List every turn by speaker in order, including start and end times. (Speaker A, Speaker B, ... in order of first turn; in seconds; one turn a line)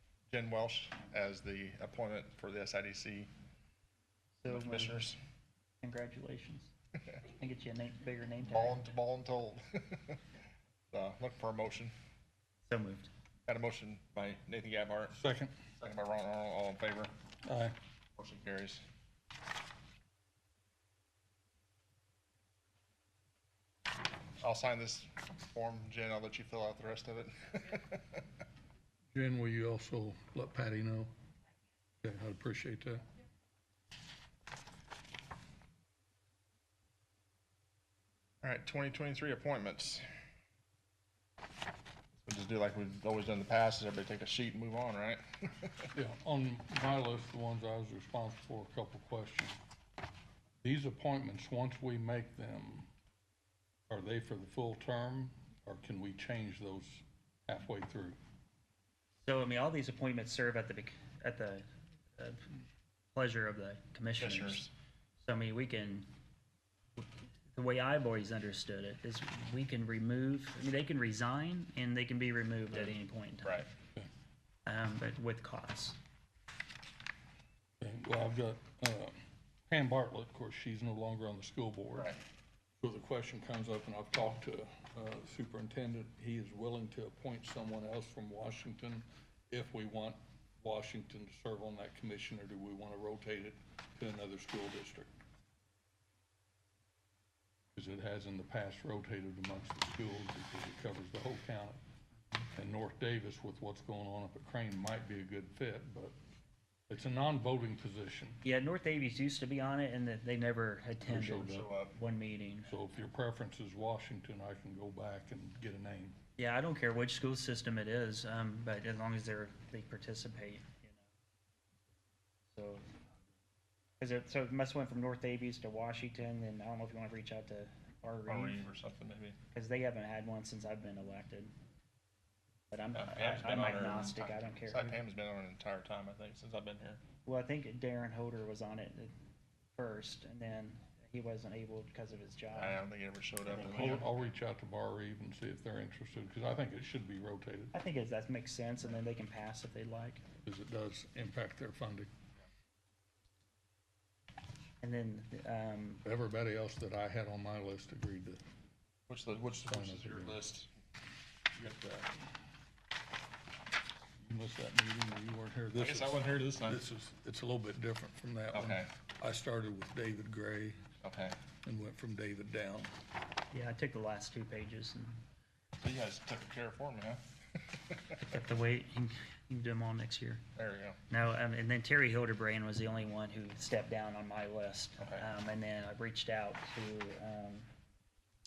Speaker A: 0.3-3.3
Speaker B: 4.4-5.1
Speaker A: 4.5-5.2
Speaker B: 5.8-6.7
Speaker B: 7.3-8.8
Speaker A: 8.5-10.2
Speaker A: 10.9-11.9
Speaker B: 12.7-13.1
Speaker A: 13.5-15.2
Speaker C: 15.1-15.5
Speaker A: 15.8-17.1
Speaker C: 17.5-17.8
Speaker A: 18.2-18.8
Speaker A: 24.4-28.2
Speaker C: 29.1-31.1
Speaker C: 32.0-33.1
Speaker A: 38.4-40.0
Speaker A: 42.2-45.9
Speaker C: 46.0-49.6
Speaker C: 50.6-52.9
Speaker C: 53.9-58.2
Speaker B: 59.2-61.6
Speaker B: 62.2-62.5
Speaker B: 63.1-64.7
Speaker A: 64.2-64.7
Speaker B: 65.2-66.1
Speaker B: 67.0-73.7
Speaker B: 74.7-76.0
Speaker C: 77.8-79.2
Speaker C: 79.7-82.1
Speaker C: 82.8-95.1
Speaker C: 97.8-101.8
Speaker C: 102.6-106.2
Speaker C: 106.9-108.4
Speaker B: 108.4-112.7
Speaker C: 111.0-111.7
Speaker A: 111.5-111.9
Speaker C: 112.7-116.2
Speaker B: 116.4-121.0
Speaker B: 122.5-122.8
Speaker B: 124.0-128.7
Speaker A: 128.3-129.4
Speaker B: 129.5-131.5
Speaker B: 132.7-135.0
Speaker A: 132.9-137.0
Speaker B: 137.2-139.1
Speaker B: 139.8-142.8
Speaker A: 142.5-144.1
Speaker B: 143.5-144.0
Speaker C: 143.6-147.7
Speaker B: 147.7-150.2
Speaker C: 150.4-152.1
Speaker B: 154.8-156.0
Speaker C: 156.0-158.4
Speaker A: 159.1-160.7
Speaker C: 159.7-160.4
Speaker A: 161.6-162.1
Speaker C: 164.2-170.8
Speaker A: 165.8-166.8
Speaker A: 168.5-168.9
Speaker A: 171.0-171.4
Speaker C: 171.6-172.9
Speaker B: 173.5-175.2
Speaker A: 175.8-177.2
Speaker B: 178.2-180.4
Speaker A: 180.6-181.0
Speaker B: 181.1-187.7
Speaker A: 185.0-185.3